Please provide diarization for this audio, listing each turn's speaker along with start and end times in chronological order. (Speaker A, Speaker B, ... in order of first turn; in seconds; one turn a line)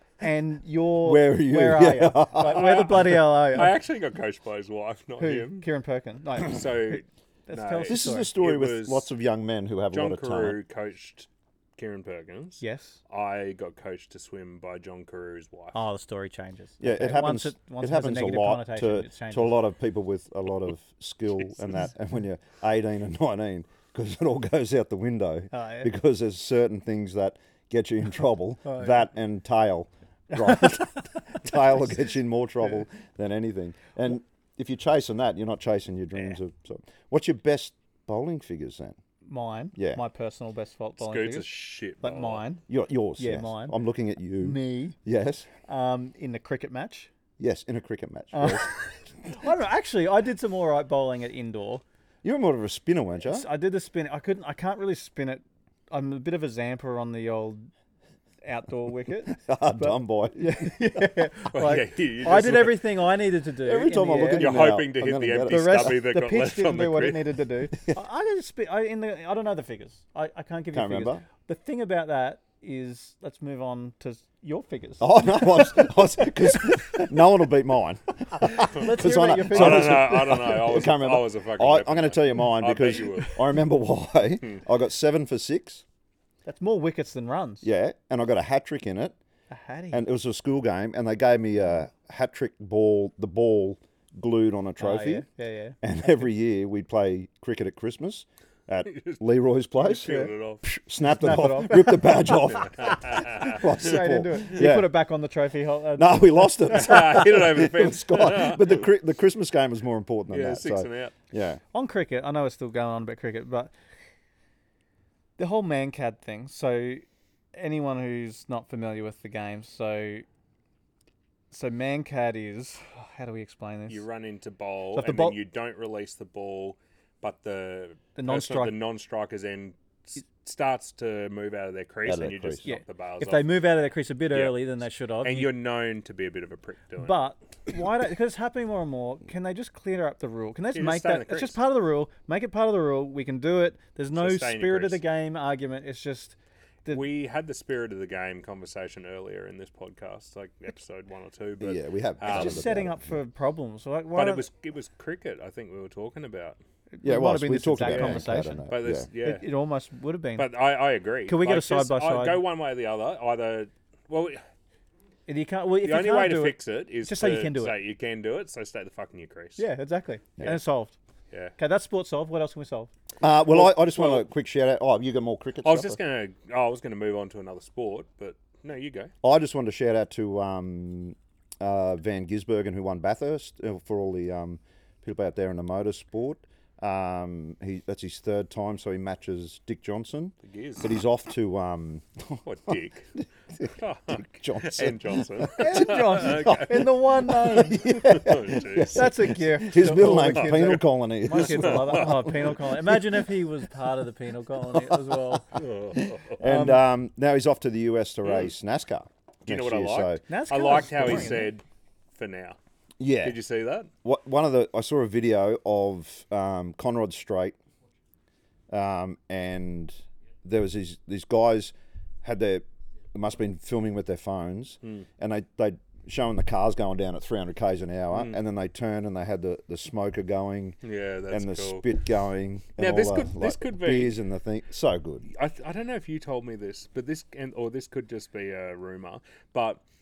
Speaker A: 0.2-3.8
Speaker B: 1.0-3.0
Speaker C: 2.4-5.7
Speaker A: 5.2-8.3
Speaker C: 6.4-9.1
Speaker B: 7.9-10.6
Speaker C: 9.9-15.8
Speaker A: 12.6-13.0
Speaker A: 15.7-19.6
Speaker B: 16.8-39.0
Speaker A: 25.5-25.9
Speaker A: 28.6-28.9
Speaker A: 30.4-30.9
Speaker A: 39.2-42.6
Speaker B: 39.8-40.0
Speaker C: 41.0-42.4
Speaker B: 42.7-45.5
Speaker A: 43.2-43.8
Speaker A: 44.4-45.0
Speaker A: 45.7-47.1
Speaker B: 47.4-48.7
Speaker A: 48.3-51.8
Speaker B: 52.2-53.5
Speaker A: 53.2-57.7
Speaker A: 58.4-64.6
Speaker B: 59.3-61.0
Speaker C: 61.5-62.9
Speaker B: 63.6-66.0
Speaker C: 64.3-67.3
Speaker A: 65.5-76.9
Speaker B: 70.7-71.2
Speaker B: 75.0-85.8
Speaker A: 78.4-80.2
Speaker C: 79.5-83.4
Speaker A: 86.4-87.7
Speaker B: 87.6-89.2
Speaker A: 89.5-90.0
Speaker B: 89.9-95.2
Speaker A: 94.8-95.8
Speaker B: 95.8-104.9
Speaker C: 98.8-99.2
Speaker C: 99.8-100.6
Speaker A: 100.0-100.3
Speaker A: 101.0-102.4
Speaker C: 102.6-103.6
Speaker A: 103.1-106.9
Speaker B: 106.0-111.6
Speaker C: 106.7-108.9
Speaker C: 110.3-111.1
Speaker A: 111.7-113.7
Speaker A: 115.4-120.2
Speaker A: 121.5-124.0
Speaker C: 123.9-133.5
Speaker A: 124.9-125.4
Speaker A: 128.2-128.8
Speaker B: 132.0-132.7
Speaker A: 132.6-135.5
Speaker C: 134.3-134.6
Speaker C: 135.2-137.2
Speaker A: 137.0-147.0
Speaker C: 140.7-141.6
Speaker C: 144.2-145.0
Speaker C: 146.9-152.6
Speaker B: 151.6-153.1
Speaker A: 152.2-154.4
Speaker C: 154.1-156.6
Speaker A: 156.9-158.6
Speaker B: 157.0-159.1
Speaker C: 157.8-159.4
Speaker A: 159.2-160.5
Speaker C: 160.4-164.4
Speaker A: 161.3-162.4
Speaker A: 165.3-167.8
Speaker C: 165.8-169.6
Speaker A: 169.6-170.9
Speaker A: 171.6-172.9
Speaker B: 173.2-176.0
Speaker C: 173.5-174.2
Speaker C: 175.6-179.1
Speaker B: 179.2-203.0
Speaker C: 190.4-190.9
Speaker C: 192.4-193.1
Speaker C: 193.6-196.9
Speaker A: 195.6-198.1
Speaker C: 198.0-199.1
Speaker A: 198.8-205.6
Speaker C: 200.0-200.7
Speaker C: 201.3-202.5
Speaker B: 204.7-205.6
Speaker C: 205.5-206.4
Speaker B: 206.4-210.2
Speaker A: 206.4-206.8
Speaker C: 208.2-208.5
Speaker C: 209.4-211.6
Speaker A: 210.3-211.5
Speaker B: 211.0-211.3
Speaker C: 212.1-212.6
Speaker B: 213.0-213.4
Speaker C: 213.2-213.9
Speaker B: 214.0-217.6
Speaker B: 218.7-230.8
Speaker C: 228.1-228.4
Speaker C: 230.8-231.8
Speaker B: 231.3-235.3
Speaker C: 232.8-234.2
Speaker C: 235.3-239.8